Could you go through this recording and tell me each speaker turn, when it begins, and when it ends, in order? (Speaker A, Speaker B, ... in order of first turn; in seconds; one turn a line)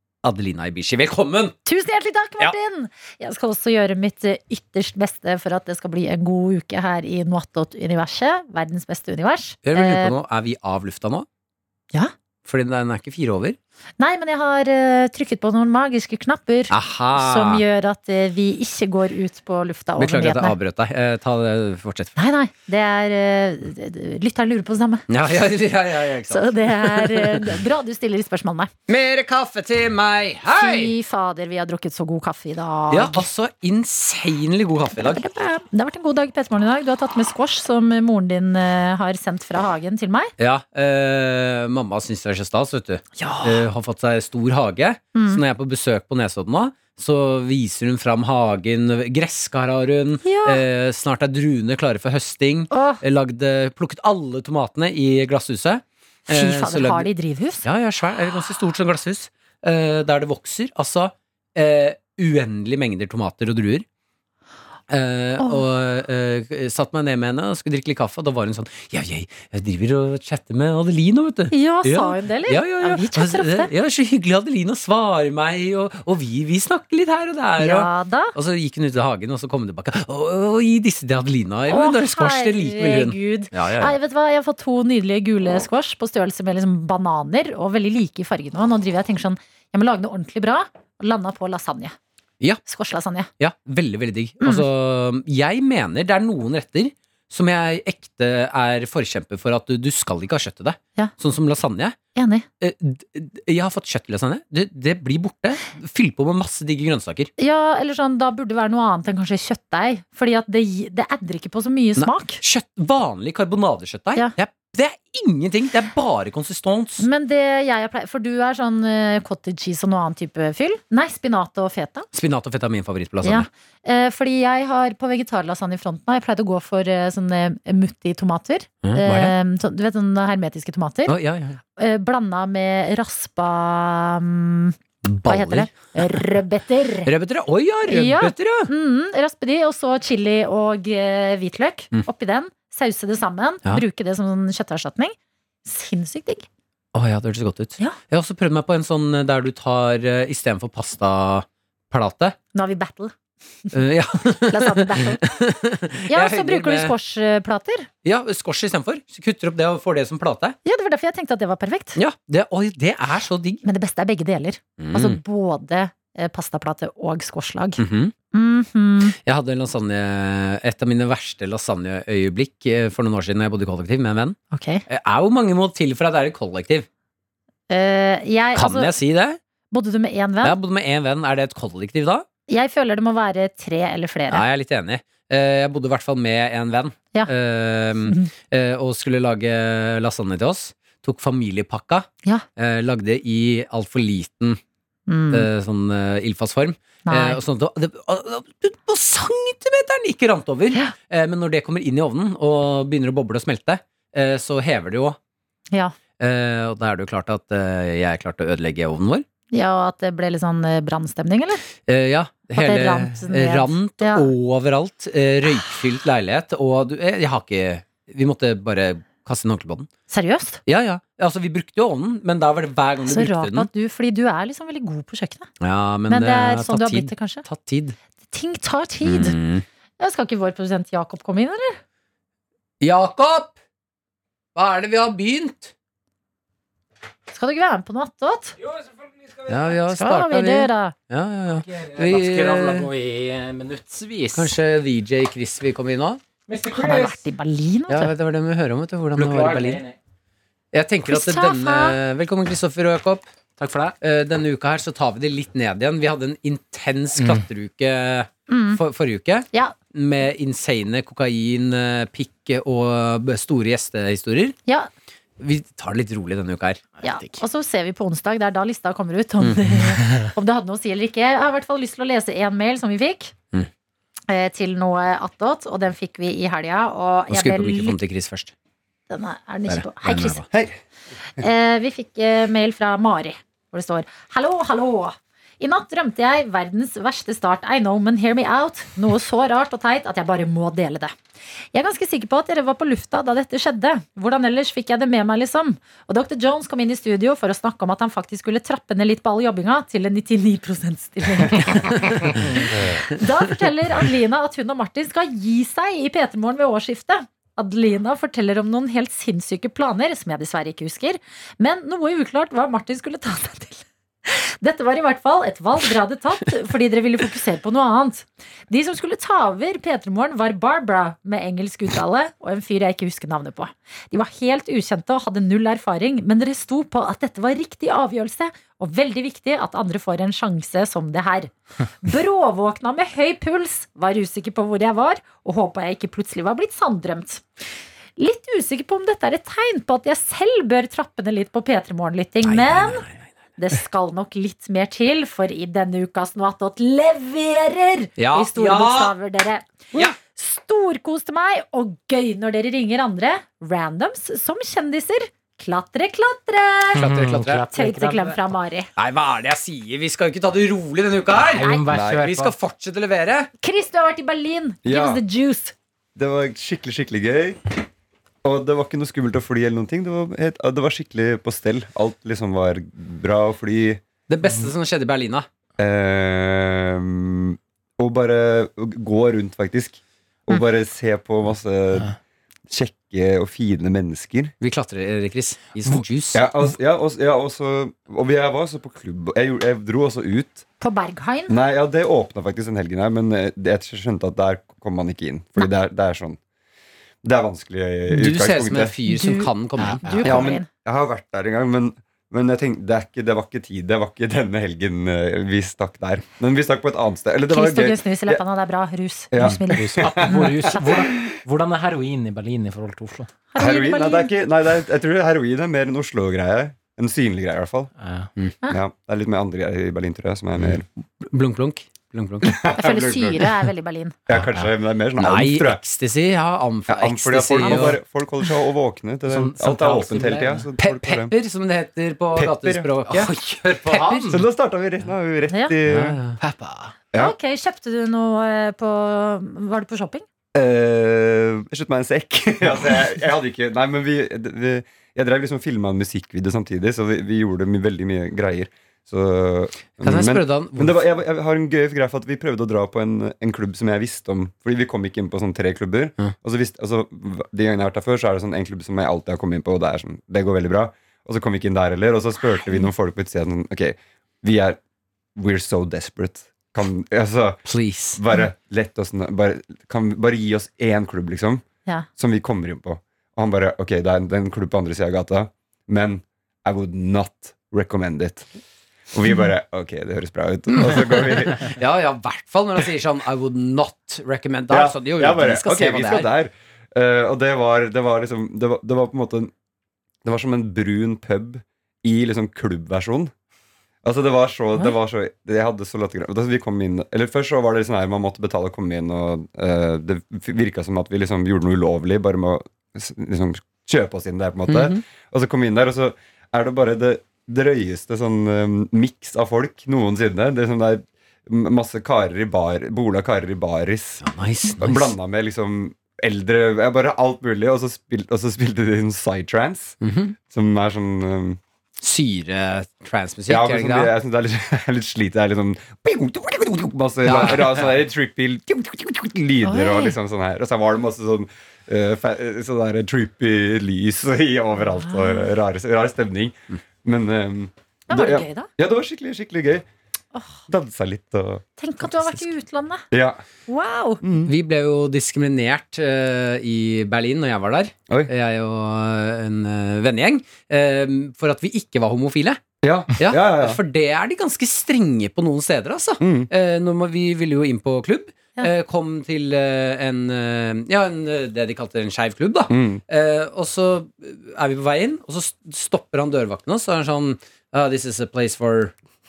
Speaker A: 0.2-1.6
Speaker B: 1.6-10.1
Speaker A: 9.7-11.3
Speaker A: 12.4-13.6
Speaker B: 14.0-20.6
Speaker A: 16.7-17.6
Speaker A: 20.0-22.1
Speaker B: 22.2-25.0
Speaker A: 25.1-27.6
Speaker B: 26.3-28.7
Speaker A: 28.9-30.9
Speaker B: 30.6-33.2
Speaker A: 32.9-35.2
Speaker B: 35.0-40.3
Speaker A: 40.4-57.1
Speaker B: 43.2-43.7
Speaker B: 45.1-45.4
Speaker B: 50.2-50.6
Speaker B: 52.7-53.0
Speaker B: 56.3-57.6
Speaker A: 57.6-63.9
Speaker A: 64.9-84.0
Speaker B: 71.5-73.7
Speaker B: 77.6-78.3
Speaker B: 81.7-92.0
Speaker B: 92.7-93.3
Speaker A: 93.4-102.0
Speaker B: 94.4-94.7
Speaker B: 102.2-102.5
Speaker A: 102.6-107.3
Speaker B: 107.4-112.4
Speaker A: 112.0-117.0
Speaker B: 117.0-122.1
Speaker A: 122.1-123.5
Speaker B: 123.2-131.2
Speaker A: 128.8-129.3
Speaker A: 131.1-131.6
Speaker B: 131.8-137.1
Speaker A: 135.0-136.2
Speaker A: 137.1-138.7
Speaker B: 137.9-146.5
Speaker A: 146.9-152.4
Speaker B: 152.5-153.1
Speaker A: 153.7-156.9
Speaker B: 154.5-155.3
Speaker B: 156.1-157.9
Speaker A: 158.1-160.6
Speaker B: 160.7-162.0
Speaker A: 162.0-163.6
Speaker B: 163.6-167.8
Speaker A: 164.8-165.2
Speaker A: 167.8-168.1
Speaker B: 168.3-169.2
Speaker A: 169.2-176.9
Speaker B: 174.5-174.8
Speaker B: 177.7-178.9
Speaker A: 178.6-179.4
Speaker B: 179.7-180.6
Speaker A: 180.4-182.3
Speaker B: 182.5-184.4
Speaker A: 184.3-194.6
Speaker B: 195.1-195.5
Speaker A: 195.3-205.2
Speaker B: 197.1-197.4
Speaker A: 206.2-209.2
Speaker B: 209.5-211.6
Speaker A: 211.9-219.9
Speaker B: 212.5-214.3
Speaker B: 220.1-220.6
Speaker A: 220.7-223.7
Speaker B: 223.1-225.5
Speaker A: 225.6-228.0
Speaker B: 226.1-227.4
Speaker B: 228.3-229.4
Speaker A: 229.0-229.7
Speaker B: 230.0-231.8
Speaker A: 232.8-233.5
Speaker A: 234.6-235.7
Speaker B: 237.3-238.6
Speaker C: 238.6-239.8
Speaker A: 239.5-242.9
Speaker B: 239.9-240.9
Speaker C: 241.6-244.6
Speaker A: 244.3-246.2
Speaker C: 246.5-247.2
Speaker B: 246.8-248.1
Speaker A: 247.9-249.8
Speaker C: 249.2-250.0
Speaker A: 250.7-253.2
Speaker B: 251.1-252.0
Speaker C: 253.6-253.9
Speaker A: 254.0-264.6
Speaker C: 257.2-257.4
Speaker B: 258.5-258.8
Speaker A: 265.4-266.8
Speaker C: 267.0-267.4
Speaker B: 267.0-273.3
Speaker B: 274.3-278.0
Speaker A: 277.3-278.5
Speaker B: 279.1-280.4
Speaker A: 279.7-280.4
Speaker D: 280.5-280.8
Speaker B: 281.4-291.1
Speaker B: 291.7-337.4
Speaker B: 338.2-343.0
Speaker A: 342.4-343.3
Speaker B: 343.6-357.2
Speaker A: 348.2-349.1
Speaker A: 357.0-357.6
Speaker C: 357.0-358.4
Speaker B: 357.7-358.9
Speaker A: 359.0-361.7
Speaker C: 361.5-362.5
Speaker D: 361.9-362.2
Speaker A: 362.2-363.5
Speaker B: 363.6-365.7
Speaker D: 364.9-365.2
Speaker D: 366.2-367.6
Speaker D: 368.4-374.0
Speaker A: 374.3-375.5
Speaker D: 375.8-382.1
Speaker D: 382.7-384.5
Speaker A: 384.6-386.5
Speaker D: 386.3-390.7
Speaker B: 390.8-391.6
Speaker D: 391.5-396.4
Speaker D: 397.2-398.9
Speaker A: 398.1-400.5
Speaker B: 399.1-400.7
Speaker C: 399.8-400.4
Speaker D: 400.2-408.4
Speaker B: 407.5-410.8
Speaker D: 409.3-411.2
Speaker C: 409.4-413.3
Speaker B: 413.5-414.3
Speaker D: 413.6-417.9
Speaker C: 418.0-418.3
Speaker D: 418.7-420.9
Speaker A: 420.6-422.6
Speaker D: 422.4-423.5
Speaker B: 422.7-424.1
Speaker D: 424.3-425.8
Speaker C: 424.3-424.7
Speaker A: 425.2-428.0
Speaker D: 426.9-431.3
Speaker C: 427.6-427.9
Speaker C: 429.3-430.7
Speaker A: 430.8-434.2
Speaker D: 432.4-432.9
Speaker C: 433.1-434.4
Speaker D: 434.3-436.2
Speaker A: 435.9-436.4
Speaker C: 436.4-436.9
Speaker B: 437.1-440.3
Speaker D: 440.5-464.8
Speaker A: 450.0-451.0
Speaker D: 465.4-467.6
Speaker A: 467.7-468.2
Speaker D: 468.1-471.6
Speaker D: 472.2-478.5
Speaker D: 479.1-481.7
Speaker A: 480.7-486.3
Speaker D: 484.7-489.5
Speaker D: 490.2-493.3
Speaker D: 494.0-514.2
Speaker A: 504.7-505.0
Speaker A: 514.2-515.0
Speaker D: 514.8-521.6
Speaker A: 520.0-520.4
Speaker A: 522.0-524.1
Speaker D: 523.5-539.9
Speaker A: 527.2-528.0
Speaker B: 529.6-530.2
Speaker B: 534.8-535.5
Speaker B: 538.1-538.7
Speaker B: 540.3-540.6
Speaker D: 540.7-541.6
Speaker B: 541.8-543.0
Speaker D: 543.1-543.4
Speaker B: 543.7-544.2
Speaker D: 544.2-544.5
Speaker A: 544.5-552.6
Speaker D: 552.8-553.8
Speaker A: 553.2-568.9
Speaker D: 556.2-556.5
Speaker D: 562.7-563.0